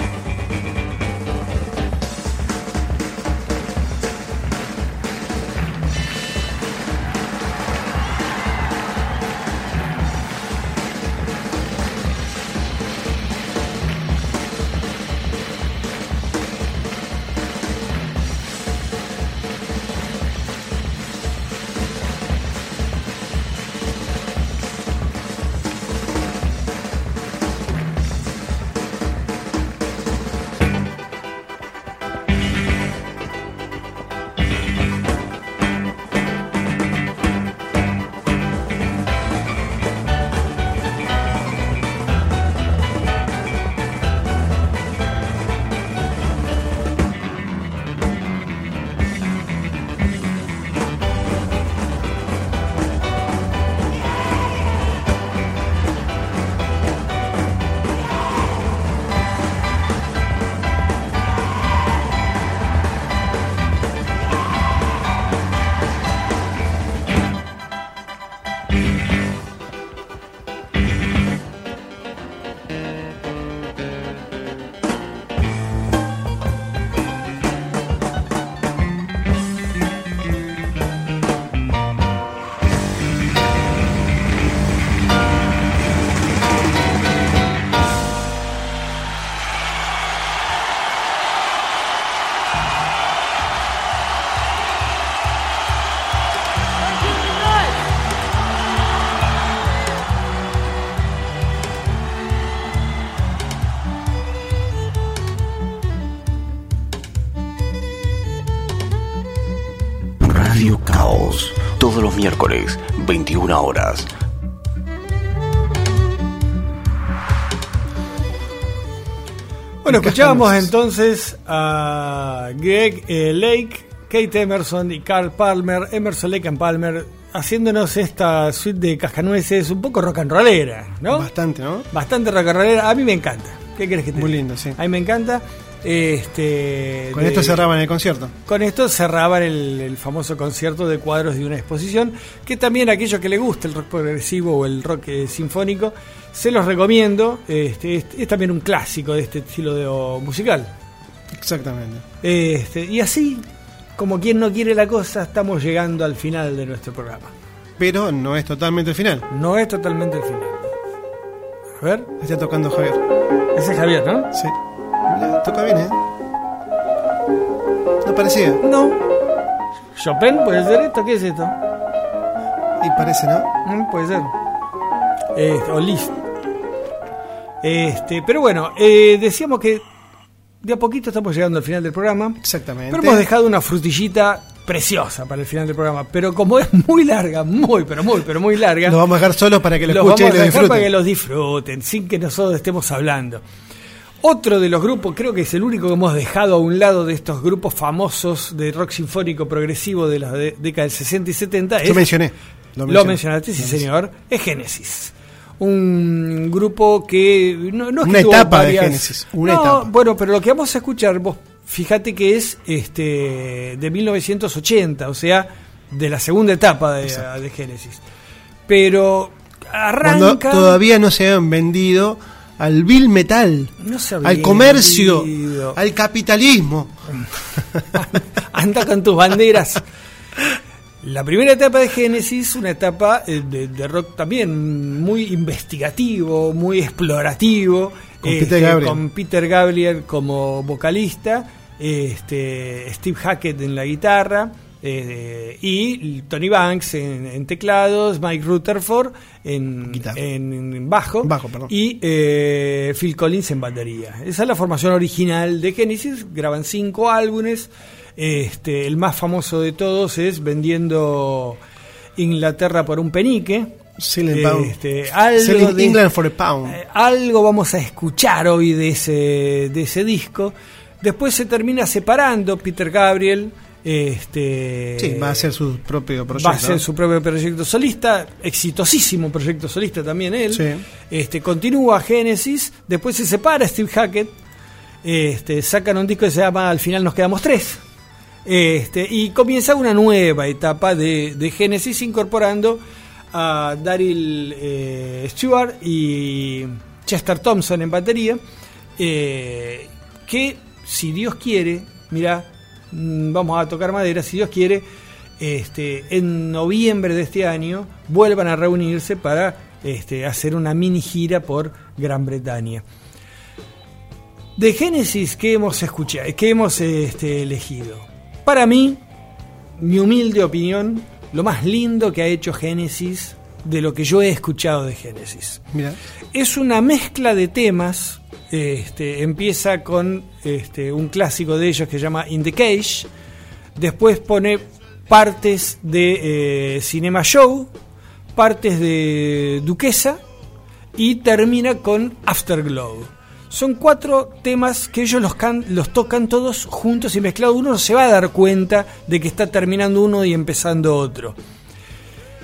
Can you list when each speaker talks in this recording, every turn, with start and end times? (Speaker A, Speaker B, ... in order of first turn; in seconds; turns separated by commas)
Speaker A: 110.2-114.1, Speaker B: 119.8-120.7, Speaker C: 119.8-131.3, Speaker B: 131.1-131.8, Speaker C: 131.9-137.6, Speaker B: 134.1-134.8, Speaker B: 137.1-138.3, Speaker C: 138.5-150.7, Speaker B: 151.3-152.0, Speaker C: 152.2-153.4, Speaker C: 154.0-157.3, Speaker B: 157.8-159.3, Speaker C: 159.3-160.7, Speaker C: 161.8-162.1, Speaker B: 162.2-163.0, Speaker C: 163.5-164.3, Speaker B: 164.3-166.0, Speaker B: 168.0-168.6, Speaker C: 168.6-169.0, Speaker C: 169.9-171.5, Speaker B: 172.8-173.5, Speaker C: 173.6-174.3, Speaker C: 175.3-176.2, Speaker C: 177.6-179.8, Speaker C: 180.6-189.0, Speaker B: 182.4-183.2, Speaker B: 188.8-190.9, Speaker C: 189.8-193.4, Speaker C: 194.2-202.1, Speaker B: 201.8-203.8, Speaker C: 202.9-218.0, Speaker B: 208.0-209.9, Speaker C: 218.7-220.8, Speaker B: 220.0-226.9, Speaker C: 223.8-225.8, Speaker C: 227.9-229.8, Speaker C: 231.0-261.6, Speaker B: 238.2-239.0, Speaker B: 249.9-250.2, Speaker B: 251.2-251.7, Speaker C: 262.2-263.7, Speaker B: 264.0-264.7, Speaker C: 264.3-266.0, Speaker B: 265.4-266.8, Speaker C: 266.7-275.5, Speaker B: 275.0-276.8, Speaker C: 276.3-284.3, Speaker B: 280.5-280.8, Speaker C: 285.0-287.8, Speaker C: 288.4-292.8, Speaker C: 293.3-298.4, Speaker C: 299.0-304.9, Speaker C: 305.4-312.8, Speaker C: 314.6-319.0, Speaker C: 319.8-325.6, Speaker B: 325.7-326.0, Speaker C: 326.3-333.1, Speaker C: 333.8-337.7, Speaker C: 338.4-340.2, Speaker C: 340.9-351.4